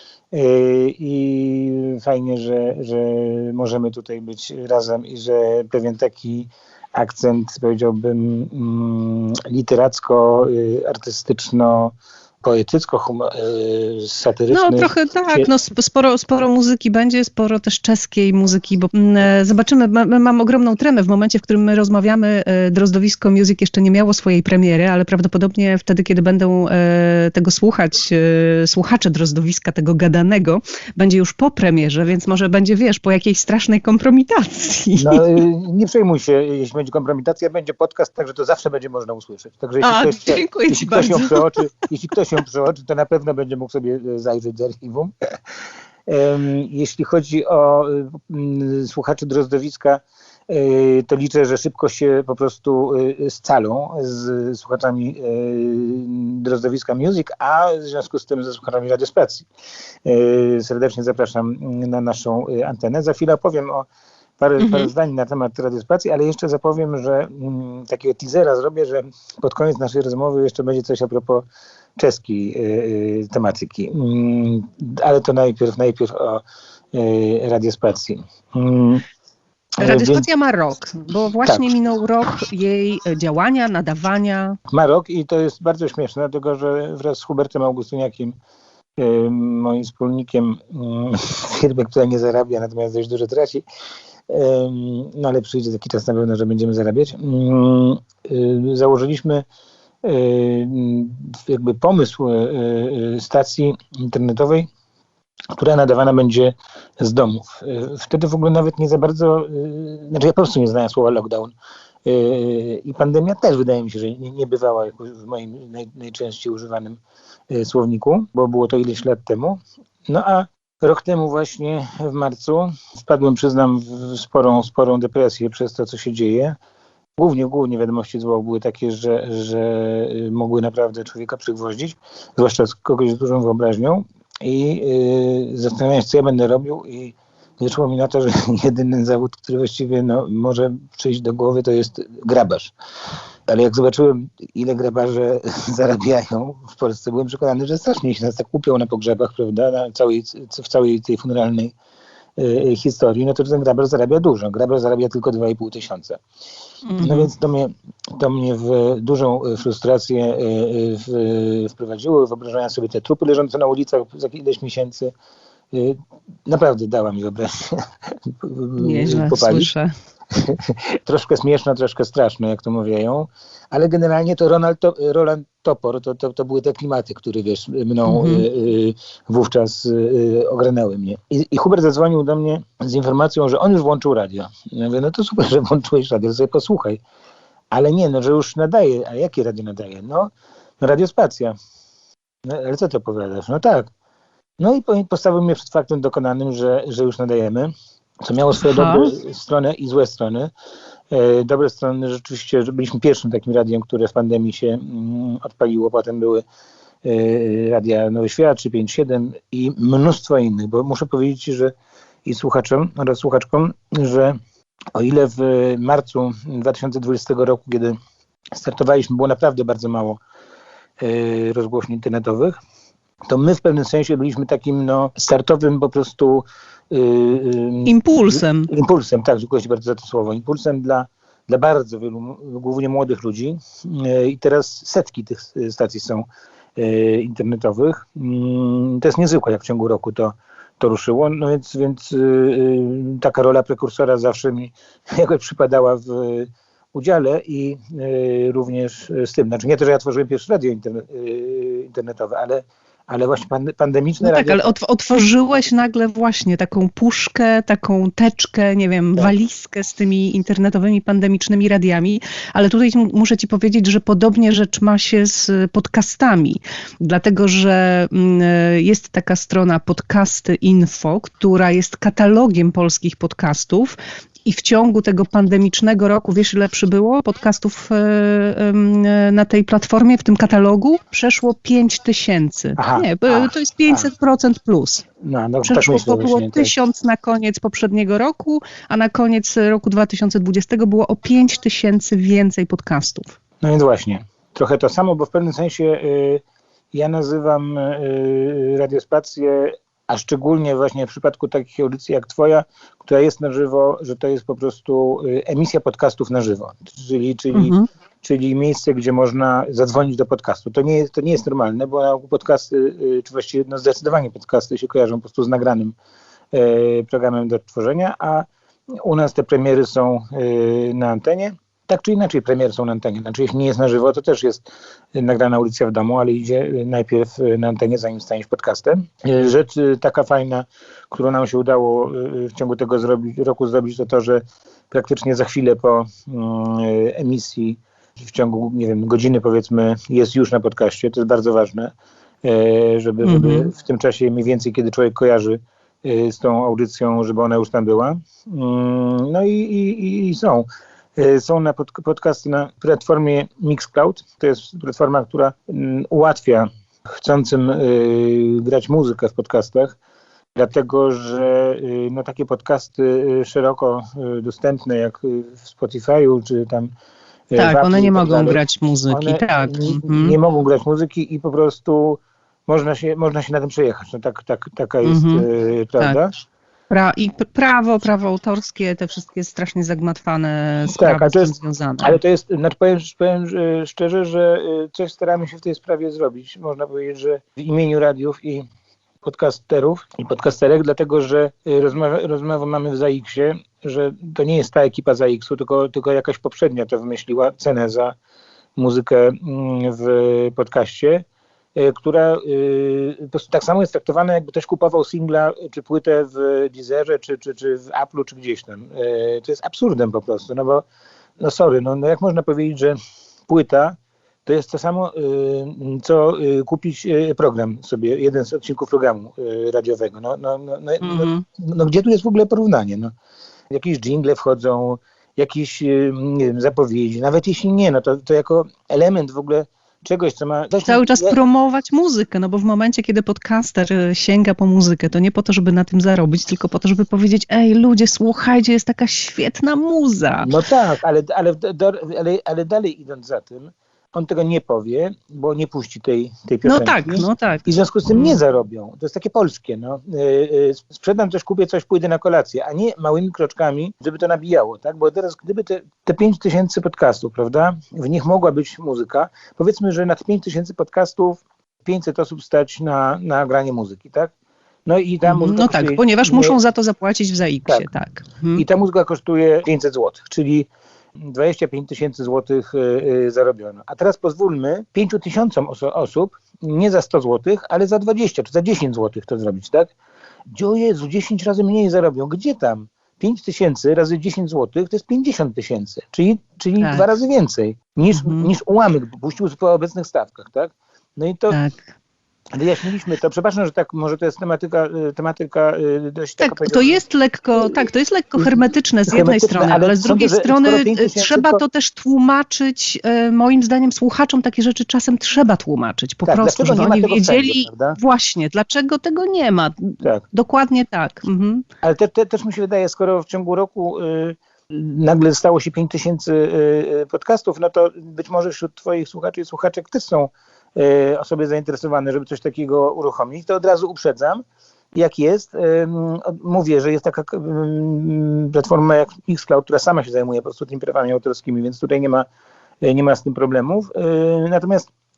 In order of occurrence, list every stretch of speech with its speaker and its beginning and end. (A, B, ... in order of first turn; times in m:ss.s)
0:00.3-0:15.5 A
0:14.5-0:35.4 B
0:35.0-0:45.1 A
0:39.8-0:41.5 B
0:46.1-0:59.4 A
1:00.0-1:03.9 A
1:04.4-1:11.4 A
1:04.6-1:04.9 B
1:12.0-1:19.0 A
1:19.8-1:20.2 A
1:19.8-1:24.6 B
1:21.4-1:21.7 A
1:24.7-1:28.3 A
1:29.0-1:33.6 A
1:34.3-1:39.4 A
1:40.0-1:44.7 A
1:45.5-1:51.5 A
1:52.0-1:57.0 A
1:57.5-2:06.6 A
2:07.2-2:22.7 A
2:23.5-2:31.7 A
2:32.4-2:36.2 A
2:36.8-2:37.3 B
2:37.0-2:45.1 A
2:45.7-2:49.7 A
2:48.8-2:49.9 B
2:50.3-3:07.0 A
2:58.0-2:58.4 B
3:07.7-3:11.5 A
3:12.4-3:13.9 A
3:14.6-3:17.7 A
3:18.2-3:20.5 A
3:18.6-3:19.1 B
3:21.1-3:26.4 A
3:27.0-3:31.7 A
3:32.2-3:34.4 A
3:34.9-3:38.0 A
3:38.5-3:40.2 A
3:41.0-3:42.5 A
3:43.3-4:14.6 A
3:47.8-3:48.7 B
4:14.2-4:45.0 B
4:42.8-4:44.1 A
4:45.2-4:46.7 A
4:45.6-4:53.4 B
4:53.6-5:15.9 A
5:07.5-5:07.8 B
5:16.5-5:18.5 A
5:19.0-5:41.9 A
5:42.4-5:50.6 A
5:43.2-5:43.7 B
5:51.2-6:00.0 A
6:00.5-6:06.9 A
6:07.5-6:16.3 A
6:07.6-6:10.4 B
6:15.0-6:15.4 B
6:16.9-6:22.2 B
6:20.9-6:28.7 A
6:29.2-6:38.2 A
6:38.8-6:50.8 A
6:51.4-6:53.0 A
6:53.5-7:03.1 A
7:01.0-7:01.4 B
7:03.7-7:11.4 A
7:10.8-7:20.5 B
7:20.4-7:44.3 A
7:26.6-7:28.4 B
7:44.8-7:46.6 A
7:45.2-7:48.6 B
7:48.5-7:59.9 A
8:00.5-8:11.6 A
8:06.8-8:07.0 B
8:08.1-8:08.5 B
8:11.5-8:11.8 B
8:12.5-8:17.0 A
8:16.4-8:31.6 B
8:18.4-8:21.6 A
8:26.2-8:28.0 A
8:31.8-8:52.3 A
8:52.8-8:54.9 A